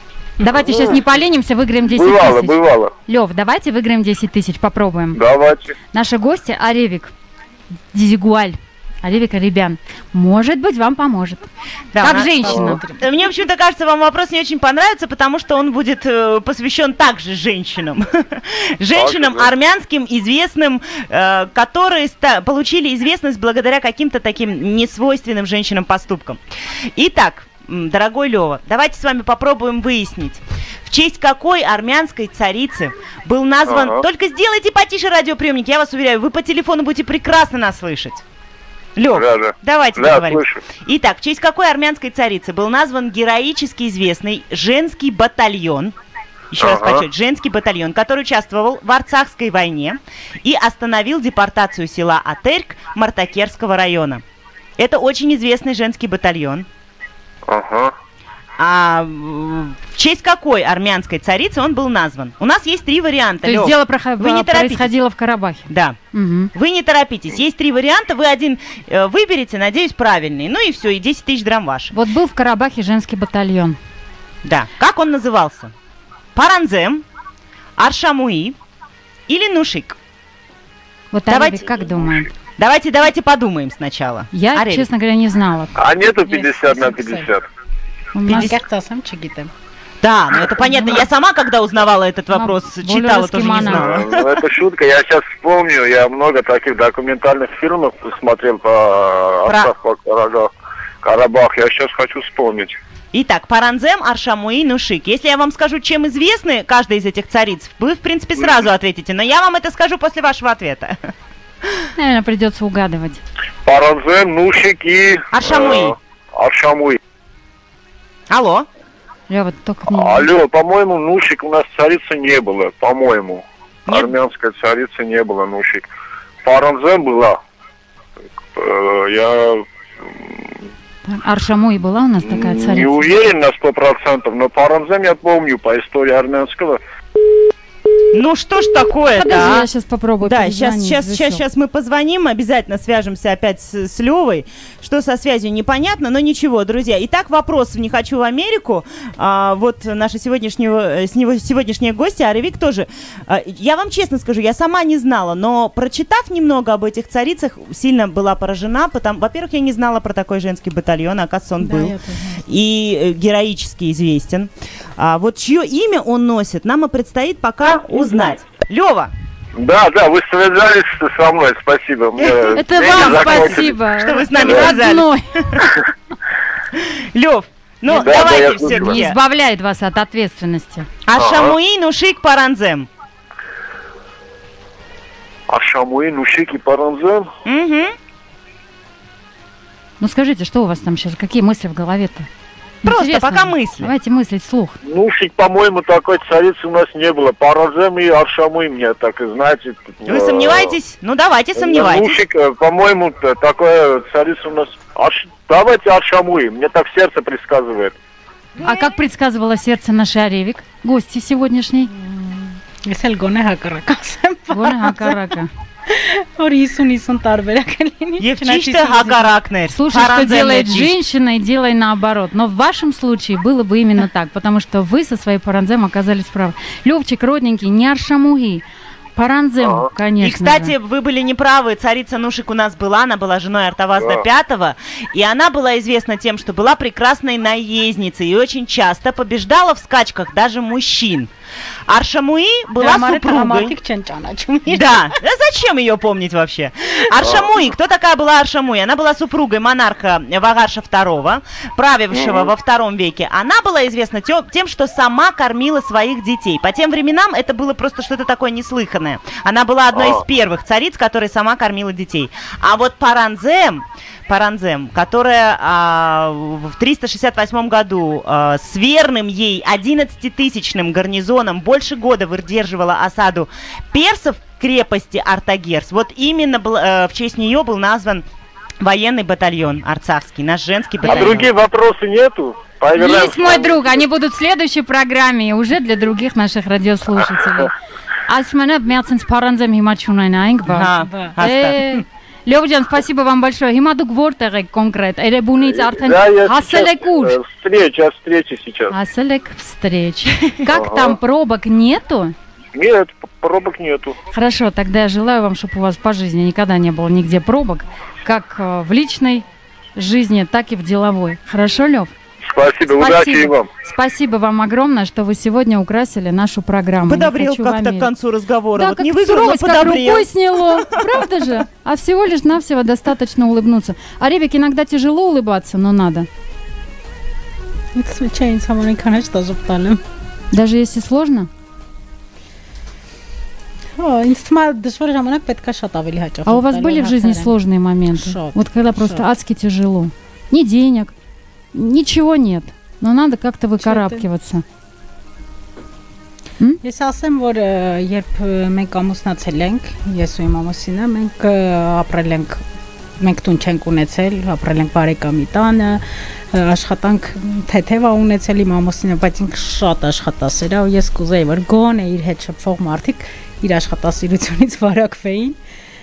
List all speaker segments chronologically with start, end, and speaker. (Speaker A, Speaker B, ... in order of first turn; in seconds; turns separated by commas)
Speaker A: 0.4-2.6, Speaker B: 0.7-0.9, Speaker B: 1.9-2.9, Speaker A: 3.1-5.2, Speaker B: 5.2-5.7, Speaker A: 5.9-7.1, Speaker A: 7.9-12.8, Speaker C: 11.9-26.4, Speaker D: 12.6-13.0, Speaker B: 18.9-19.5, Speaker C: 27.0-38.2, Speaker B: 33.7-34.0, Speaker C: 39.0-45.9, Speaker B: 39.1-40.6, Speaker C: 46.5-54.2, Speaker B: 46.6-47.1, Speaker C: 54.8-56.7, Speaker B: 57.5-57.9, Speaker C: 58.6-64.9, Speaker A: 63.5-66.5, Speaker C: 65.7-66.0, Speaker C: 66.5-71.9, Speaker A: 71.9-73.8, Speaker C: 74.5-75.7, Speaker C: 76.3-77.0, Speaker C: 77.8-78.6, Speaker C: 79.3-80.0, Speaker A: 81.1-82.3, Speaker C: 81.3-81.7, Speaker C: 82.6-84.9, Speaker A: 84.3-85.7, Speaker B: 85.8-87.5, Speaker D: 86.0-87.3, Speaker A: 88.2-88.5, Speaker C: 88.3-88.5, Speaker D: 88.3-89.5, Speaker C: 90.0-94.4, Speaker A: 92.3-93.9, Speaker B: 93.7-100.5, Speaker C: 99.5-99.7, Speaker B: 101.0-102.8, Speaker C: 103.1-111.1, Speaker A: 112.0-113.2, Speaker B: 113.7-117.0, Speaker C: 115.3-116.0, Speaker C: 118.3-118.7, Speaker A: 119.3-120.3, Speaker B: 119.9-125.9, Speaker C: 123.9-124.1, Speaker B: 126.4-127.4, Speaker B: 128.5-129.7, Speaker A: 131.1-133.2, Speaker B: 132.3-136.8, Speaker C: 138.1-139.7, Speaker A: 139.2-141.4, Speaker C: 140.2-169.1, Speaker D: 161.6-162.4, Speaker B: 169.6-173.7, Speaker C: 172.2-175.7, Speaker A: 172.6-175.2, Speaker B: 174.4-174.7, Speaker C: 176.8-179.2, Speaker B: 177.9-178.9, Speaker A: 178.7-180.9, Speaker C: 181.1-182.9, Speaker B: 181.2-181.6, Speaker B: 185.5-187.3, Speaker C: 187.5-187.9, Speaker A: 190.0-192.3, Speaker A: 192.8-194.8, Speaker C: 192.8-193.9, Speaker B: 194.8-200.8, Speaker C: 200.1-202.2, Speaker B: 201.6-207.9, Speaker A: 208.6-211.9, Speaker D: 211.9-215.3, Speaker A: 214.5-215.5, Speaker D: 215.9-219.3, Speaker C: 218.2-220.9, Speaker A: 219.7-228.6, Speaker A: 229.2-230.7, Speaker B: 229.6-229.9, Speaker C: 230.2-241.3, Speaker B: 234.0-234.2, Speaker C: 241.9-243.7, Speaker D: 242.8-245.2, Speaker C: 244.7-278.2, Speaker B: 247.2-247.5, Speaker B: 252.1-252.5, Speaker B: 259.9-260.2, Speaker C: 278.8-281.5, Speaker B: 281.1-284.0, Speaker A: 283.0-287.7, Speaker A: 288.3-297.4, Speaker C: 290.7-292.0, Speaker D: 290.9-291.4, Speaker B: 295.7-298.9, Speaker A: 298.9-302.4, Speaker B: 300.7-301.2, Speaker B: 302.8-304.2, Speaker A: 304.3-309.4, Speaker A: 310.0-312.1, Speaker B: 312.5-313.7, Speaker A: 312.9-318.1, Speaker C: 317.1-321.2, Speaker A: 318.8-326.3, Speaker D: 327.9-330.0, Speaker A: 330.5-331.5, Speaker D: 334.0-337.6, Speaker A: 336.5-341.1, Speaker D: 338.1-339.3, Speaker A: 341.7-344.6, Speaker D: 343.8-344.3, Speaker D: 346.8-352.6, Speaker D: 353.2-365.6